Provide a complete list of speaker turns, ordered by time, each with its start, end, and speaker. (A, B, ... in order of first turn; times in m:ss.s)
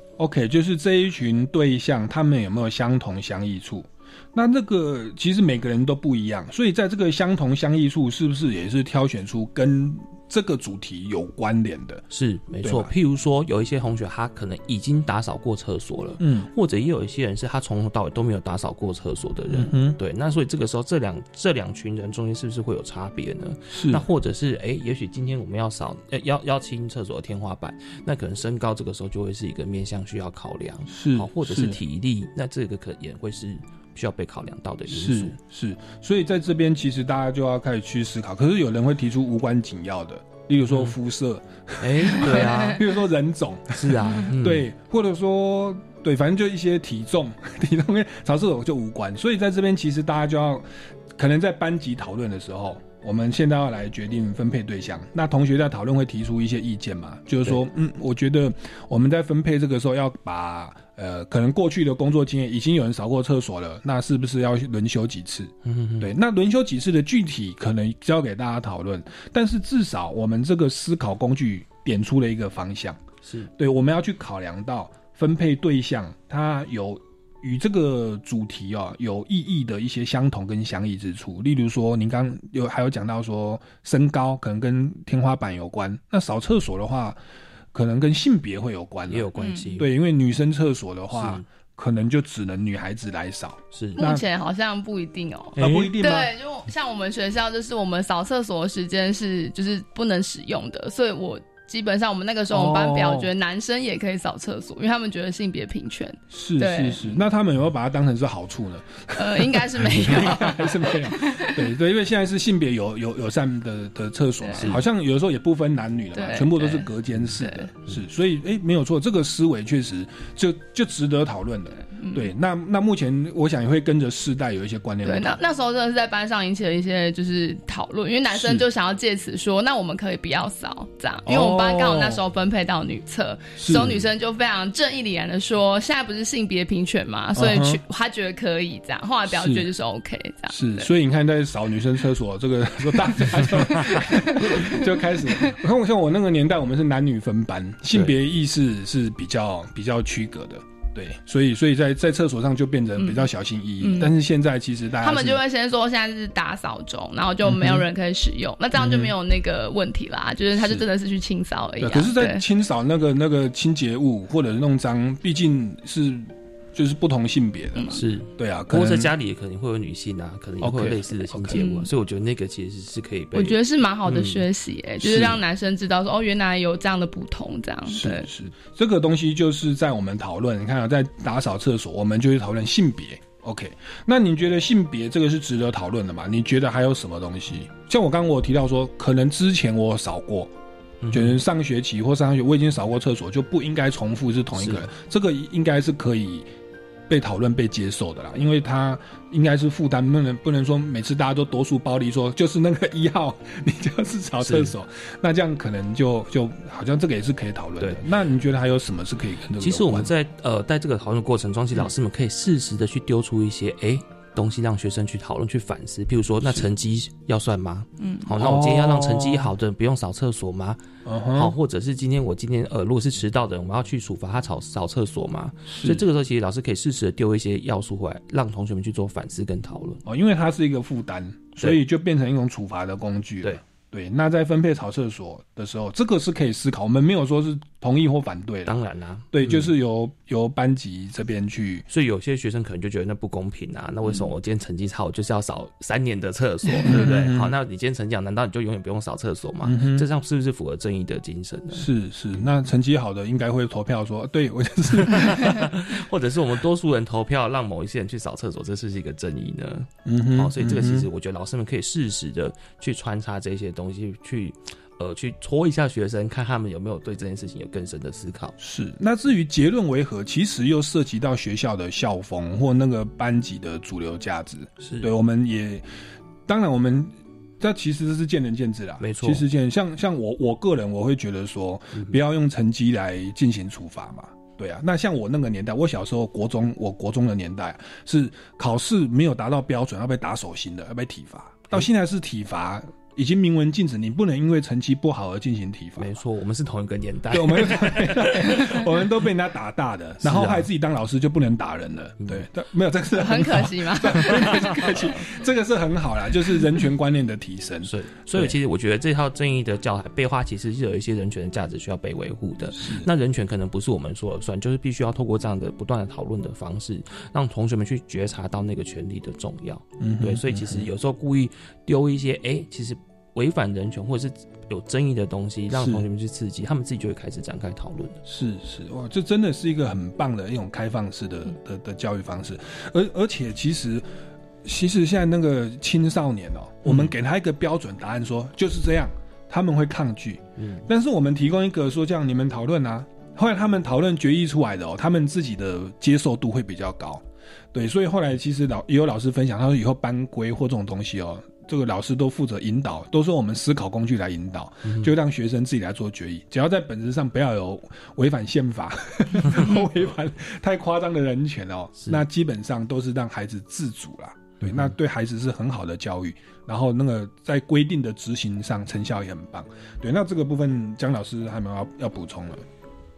0:00.2-0:12.0 A
0:12.1-0:35.4 B
0:12.6-0:12.9 A
0:16.2-0:16.5 A
0:19.5-0:20.0 A
0:23.7-0:24.0 A
0:30.9-0:31.8 A
0:34.9-1:13.0 A
0:40.6-0:40.9 B
0:41.8-0:42.8 B
0:43.8-0:44.7 B
1:05.6-1:06.1 B
1:13.2-1:13.5 B
1:13.6-1:27.2 A
1:27.7-1:34.3 A
1:29.1-1:29.9 B
1:29.4-1:29.6 C
1:31.1-1:31.5 B
1:33.7-1:34.0 B
1:34.0-1:47.0 C
1:35.6-1:35.9 B
1:35.6-1:36.3 A
1:42.5-1:43.3 A
1:46.3-2:05.4 A
1:49.2-1:51.6 C
1:56.2-1:56.9 C
1:57.4-1:57.7 C
2:01.9-2:02.3 C
2:05.0-2:20.9 C
2:08.3-2:08.6 A
2:11.3-2:12.2 A
2:13.6-2:14.0 A
2:17.4-2:17.8 A
2:19.3-2:19.7 A
2:20.5-2:35.4 A
2:33.0-2:33.3 C
2:33.8-2:34.1 C
2:35.0-2:42.4 C
2:37.4-2:37.8 A
2:38.8-2:39.1 A
2:40.6-2:40.8 A
2:41.8-2:49.1 A
2:47.9-2:54.4 B
2:50.6-2:51.7 A
2:51.6-2:51.9 C
2:53.3-2:58.3 C
2:55.0-2:55.4 A
2:57.9-3:10.5 A
3:11.0-3:11.4 B
3:11.1-3:16.5 A
3:14.6-3:14.9 B
3:17.1-3:30.1 A
3:24.4-3:24.7 B
3:29.6-3:40.8 B
3:38.0-3:38.2 C
3:38.3-3:39.5 A
3:41.0-3:41.5 A
3:41.3-3:50.0 B
3:45.7-3:46.0 A
3:50.0-3:58.8 A
3:58.7-3:59.7 B
3:59.3-4:01.9 A
4:01.9-4:11.9 B
4:06.8-4:07.5 A
4:09.6-4:10.1 A
4:11.7-4:15.7 A
4:15.1-4:28.6 B
4:20.1-4:21.1 A
4:28.6-4:35.8 A
4:34.8-4:35.1 B
4:36.5-4:56.1 A
4:39.0-4:39.4 B
4:56.0-4:58.8 B
4:57.3-5:08.6 A
5:00.2-5:00.7 B
5:03.2-5:05.0 C
5:07.8-5:28.2 B
5:12.7-5:13.1 A
5:20.0-5:20.9 A
5:25.7-5:26.0 A
5:28.3-5:34.0 A
5:34.6-6:12.6 A
5:36.8-5:37.1 B
5:40.6-5:40.8 B
5:54.8-5:55.1 B
6:04.6-6:04.9 B